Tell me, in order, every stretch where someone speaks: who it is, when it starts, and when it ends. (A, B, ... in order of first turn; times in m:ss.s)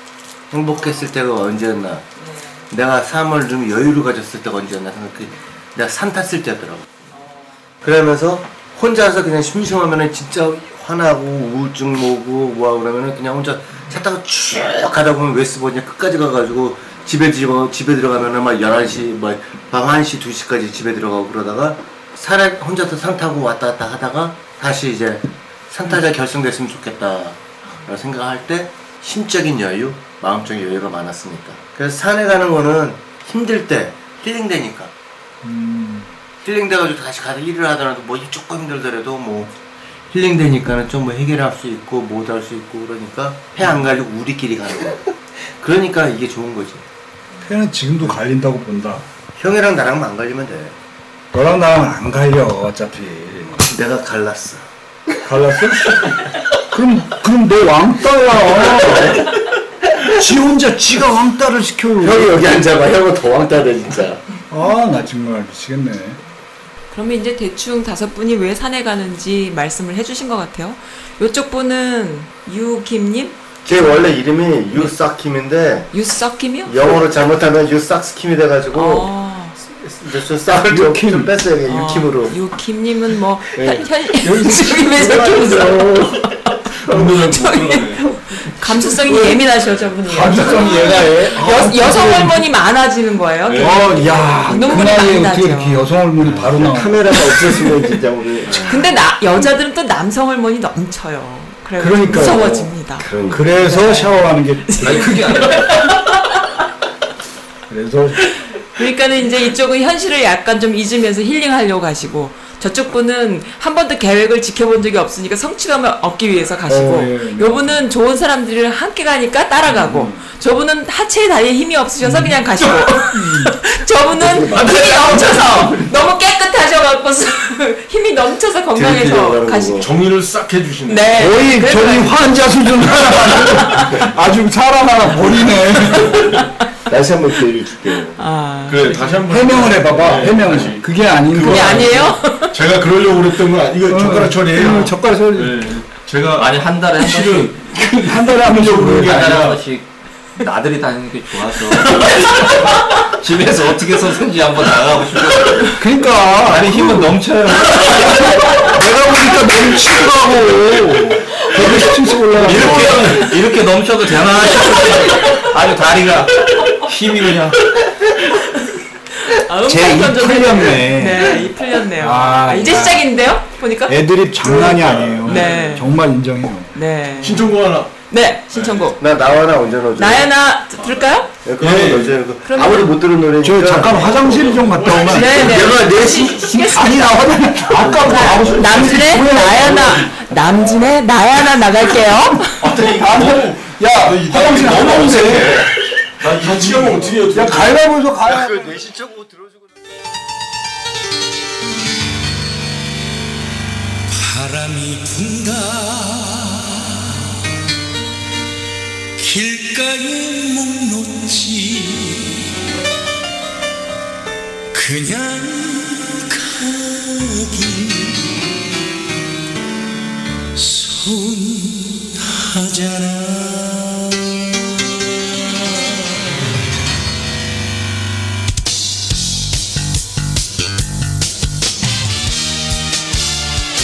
0:00.5-0:02.0 A
0:02.2-0:02.5 B
0:02.7-0:06.9 A
0:07.1-0:07.5 B
0:07.8-0:34.9 A
0:35.4-0:36.1 C
0:36.4-0:39.5 A
0:40.1-0:45.0 A
0:45.6-0:46.8 A
0:47.4-0:49.0 C
0:49.4-0:50.8 A
0:51.3-0:53.6 C
0:53.5-0:54.6 A
0:55.2-0:56.0 C
0:56.7-0:59.3 C
1:00.1-1:02.6 C
1:02.0-1:04.2 A
1:04.5-1:06.2 C
1:06.9-1:13.4 B
1:13.6-1:15.9 A
1:15.9-1:16.8 B
1:16.7-1:19.1 A
1:18.7-1:19.6 B
1:19.8-1:22.4 A
1:20.5-1:21.4 C
1:21.6-1:35.8 B
1:23.5-1:26.0 A
1:26.8-1:28.0 D
1:30.0-1:32.5 C
1:33.4-1:34.5 D
1:33.6-1:37.3 C
1:36.3-1:38.7 E
1:38.4-1:38.8 D
1:38.6-1:46.4 B
1:41.8-1:42.8 C
1:43.0-1:43.4 E
1:43.3-1:45.6 C
1:44.8-1:45.9 F
1:47.7-1:48.3 C
1:48.6-2:09.8 B
1:56.6-1:57.8 C
1:59.6-2:00.2 C
2:02.0-2:03.6 C
2:04.3-2:04.7 E
2:08.7-2:09.9 A
2:09.7-2:11.3 D
2:10.9-2:12.2 B
2:11.2-2:16.4 C
2:13.3-2:14.0 B
2:15.9-2:16.2 D
2:16.9-2:18.2 E
2:18.2-2:19.3 B
2:18.6-2:29.6 D
2:19.3-2:22.2 C
2:21.4-2:22.6 B
2:23.9-2:25.8 C
2:26.3-2:27.7 F
2:27.8-2:29.4 C
2:28.8-2:38.7 F
2:35.8-2:37.3 C
2:38.0-2:43.2 C
2:42.3-2:47.7 F
2:42.4-2:43.3 D
2:49.2-2:54.0 B
2:49.7-2:53.1 C
2:53.9-2:56.7 C
2:54.4-2:55.9 D
2:55.2-2:55.9 B
2:56.7-2:59.1 B
2:57.2-2:57.9 D
2:58.5-2:58.9 D
2:59.0-3:00.3 A
3:00.0-3:01.3 B
3:00.8-3:02.2 D
3:01.4-3:06.8 A
3:02.4-3:02.9 B
3:03.4-3:05.6 C
3:04.2-3:05.7 D
3:04.9-3:12.6 B
3:06.6-3:10.2 C
3:07.8-3:08.4 A
3:12.6-3:13.7 D
3:12.8-3:15.6 C
3:14.1-3:15.7 F
3:14.4-3:15.0 D
3:16.2-3:17.0 F
3:16.2-3:17.8 D
3:17.3-3:18.8 C
3:18.3-3:19.7 A
3:24.1-3:27.2 G
3:29.2-3:32.4 G
3:34.7-3:38.4 G
3:40.5-3:44.2 G